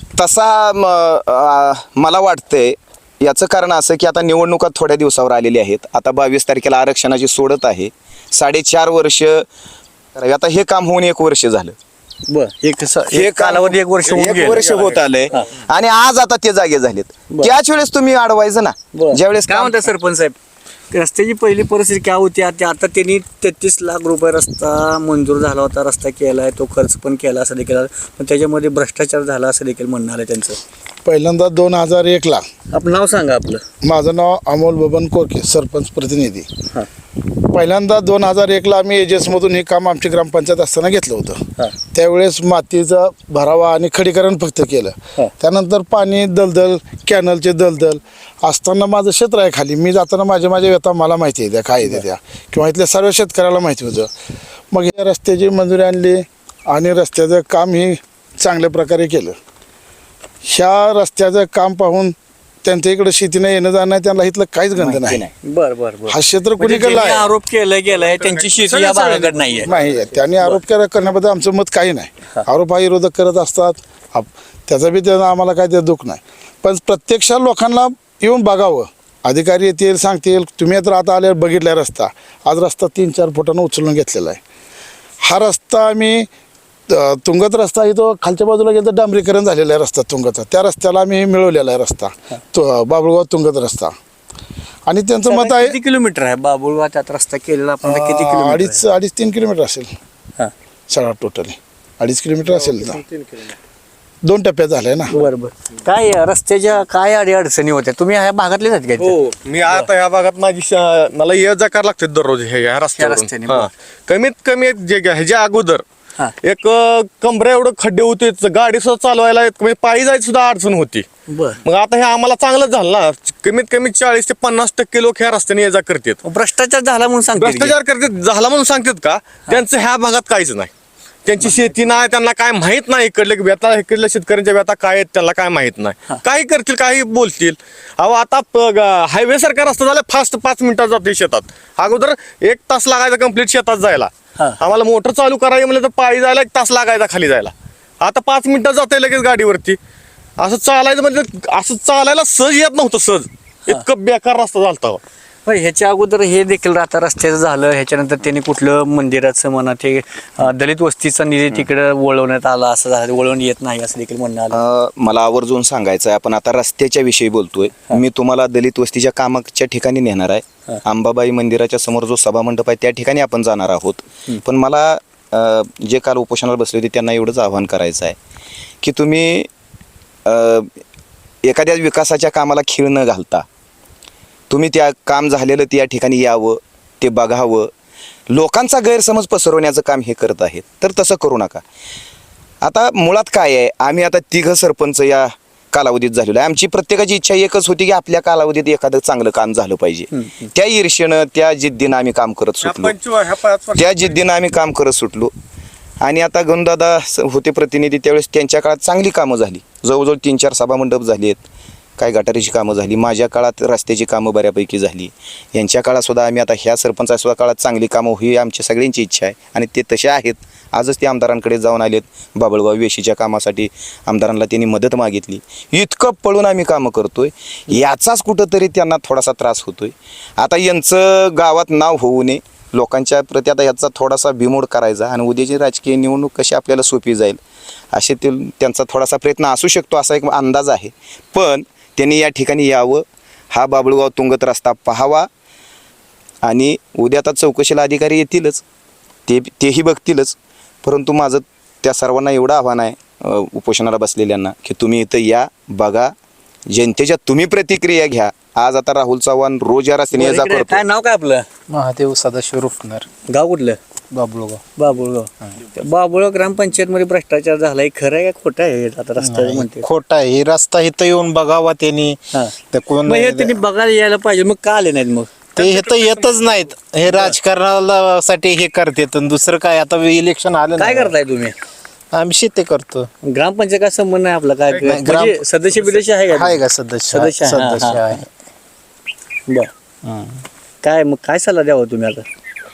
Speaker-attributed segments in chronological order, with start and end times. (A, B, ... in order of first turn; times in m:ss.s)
0:00.2-0:09.5 A
0:10.1-0:11.7 A
0:12.3-0:14.6 B
0:13.1-0:19.9 A
0:14.0-0:15.0 C
0:18.9-0:20.3 B
0:20.9-0:30.6 B
0:31.0-0:32.4 D
0:32.7-0:33.6 B
0:33.8-0:36.5 D
0:37.5-0:41.4 D
0:41.9-0:54.1 D
0:54.7-0:59.4 D
1:00.4-1:05.2 D
1:04.8-1:05.3 A
1:05.4-1:09.7 B
1:06.1-1:07.3 D
1:08.0-1:09.7 C
1:09.6-1:24.4 D
1:25.2-1:26.3 D
1:26.9-1:33.9 D
1:34.9-1:35.7 D
1:35.2-1:38.8 B
1:37.8-1:39.9 D
1:40.9-1:43.0 D
1:44.2-1:45.1 D
1:45.1-1:49.9 B
1:49.0-1:55.8 C
1:53.0-1:53.7 B
1:56.4-2:01.1 C
2:01.3-2:01.6 B
2:01.6-2:06.2 C
2:06.2-2:07.8 B
2:07.4-2:10.7 C
2:11.2-2:29.8 C
2:11.4-2:11.7 B
2:30.4-2:35.0 C
2:35.4-2:44.6 B
2:44.5-2:58.2 A
2:58.8-2:59.5 A
3:00.2-3:00.8 A
3:01.4-3:03.4 A
3:04.5-3:07.7 A
3:08.3-3:11.6 A
3:12.6-3:22.9 A
3:20.1-3:20.5 B
3:22.6-3:24.2 C
3:23.8-3:25.3 A
3:26.0-3:31.4 A
3:32.0-3:57.4 A
3:57.9-4:05.3 A
4:06.4-4:08.6 A
4:09.3-4:16.1 A
4:16.7-4:20.8 A
4:20.1-4:21.5 B
4:21.7-4:23.0 E
4:23.3-4:23.8 B
4:24.1-4:24.6 E
4:24.8-4:29.8 B
4:29.3-4:32.2 E
4:32.3-4:35.3 B
4:32.7-4:33.5 E
4:35.6-4:41.1 E
4:37.0-4:37.4 B
4:40.7-4:41.5 B
4:42.1-4:43.1 E
4:43.2-4:48.2 B
4:44.8-4:45.3 E
4:46.3-4:48.2 E
4:50.8-4:52.2 B